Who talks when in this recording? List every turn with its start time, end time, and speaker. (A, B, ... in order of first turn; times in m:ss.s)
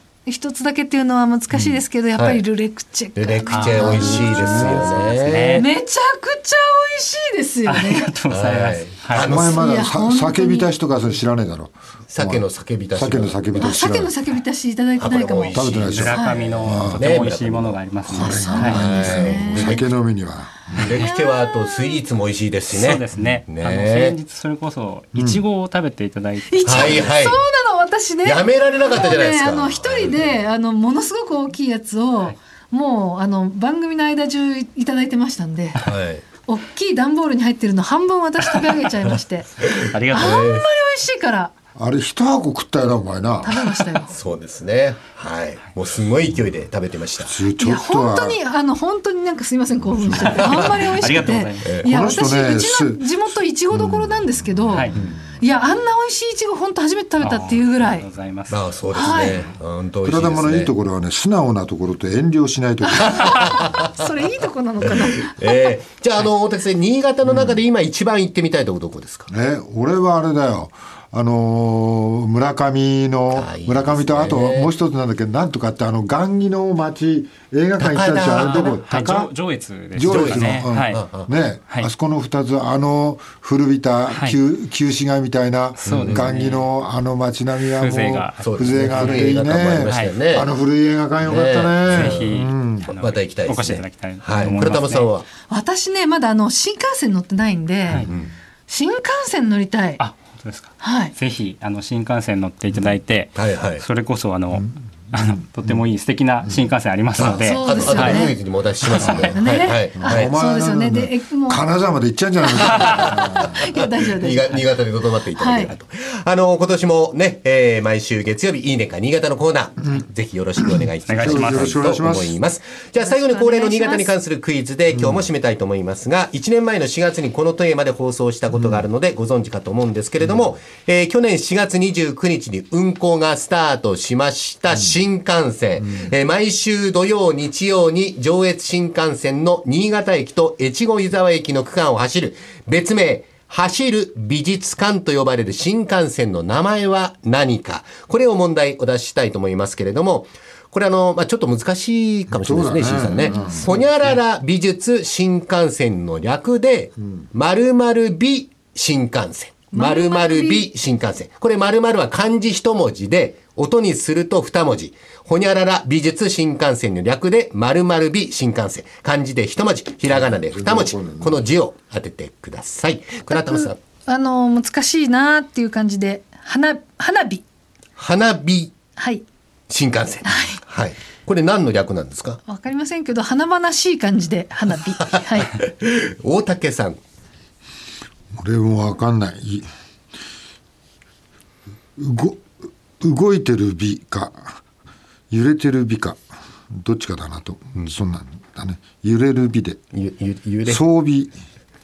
0:00.3-0:08.1 A
0:01.5-0:02.4 B
0:03.2-0:05.6 B
0:03.5-0:05.7 C
0:03.7-0:05.1 D
0:07.7-0:09.3 C
0:08.3-0:09.7 B
0:09.2-0:14.1 D
0:09.3-0:10.8 A
0:12.1-0:13.8 B
0:13.6-0:16.5 A
0:15.0-0:17.8 B
0:15.5-0:17.1 D
0:15.9-0:18.8 C
0:18.0-0:21.0 D
0:18.3-0:19.8 A
0:18.6-0:19.9 B
0:20.8-0:24.2 B
0:20.8-0:22.0 A
0:22.7-0:27.1 C
0:25.1-0:25.4 D
0:26.5-0:35.8 A
0:26.6-0:27.4 B
0:28.2-0:30.2 B
0:35.8-0:36.2 B
0:36.4-0:41.5 A
0:39.6-0:40.7 B
0:39.9-0:40.4 C
0:41.8-0:43.8 D
0:43.4-0:44.1 A
0:44.1-0:47.4 B
0:47.2-0:48.4 D
0:47.6-0:58.1 A
0:49.9-0:50.7 D
0:50.2-0:51.7 C
0:50.4-0:50.9 B
0:51.6-0:52.1 B
0:51.8-0:55.1 D
0:54.7-0:55.0 C
0:57.2-0:58.6 C
0:58.5-1:00.7 B
0:58.9-0:59.4 A
1:00.0-1:03.3 D
1:02.8-1:05.7 A
1:03.2-1:03.9 B
1:04.8-1:09.3 B
1:07.2-1:07.6 D
1:09.3-1:19.3 D
1:13.3-1:14.7 B
1:17.8-1:18.8 B
1:18.4-1:21.0 C
1:19.9-1:32.9 D
1:20.0-1:21.3 B
1:24.1-1:24.4 C
1:25.8-1:26.7 C
1:25.8-1:26.3 B
1:27.6-1:29.3 C
1:28.4-1:30.5 B
1:29.8-1:30.2 C
1:31.2-1:32.3 B
1:31.9-1:35.1 C
1:32.9-1:35.2 B
1:35.5-1:38.1 A
1:38.1-1:38.3 B
1:38.7-1:40.0 A
1:40.0-1:48.3 C
1:40.8-1:41.2 A
1:43.4-1:43.8 B
1:44.5-1:45.8 D
1:47.2-1:50.3 B
1:47.4-1:48.4 A
1:48.8-1:49.3 C
1:48.9-1:49.2 D
1:49.2-1:51.6 A
1:50.0-1:53.7 D
1:52.4-1:54.8 A
1:52.8-2:53.8 B
1:55.4-1:55.7 A
2:00.6-2:02.4 D
2:01.0-2:01.8 C
2:03.0-2:04.1 A
2:04.9-2:05.3 D
2:08.5-2:08.8 D
2:32.3-2:33.9 D
2:33.3-2:33.6 A
2:39.7-2:40.7 A
2:50.1-2:51.4 D
2:53.3-2:57.4 A
2:58.0-2:58.8 B
2:59.0-2:59.2 A
2:59.7-3:02.4 B
3:00.2-3:00.6 A
3:02.4-3:05.6 A
3:05.6-3:07.0 B
3:08.4-3:09.7 D
3:12.0-3:12.4 D
3:13.0-3:14.6 D
3:15.3-3:16.2 D
3:16.7-3:19.8 D
3:19.9-3:20.8 B
3:20.7-3:21.3 D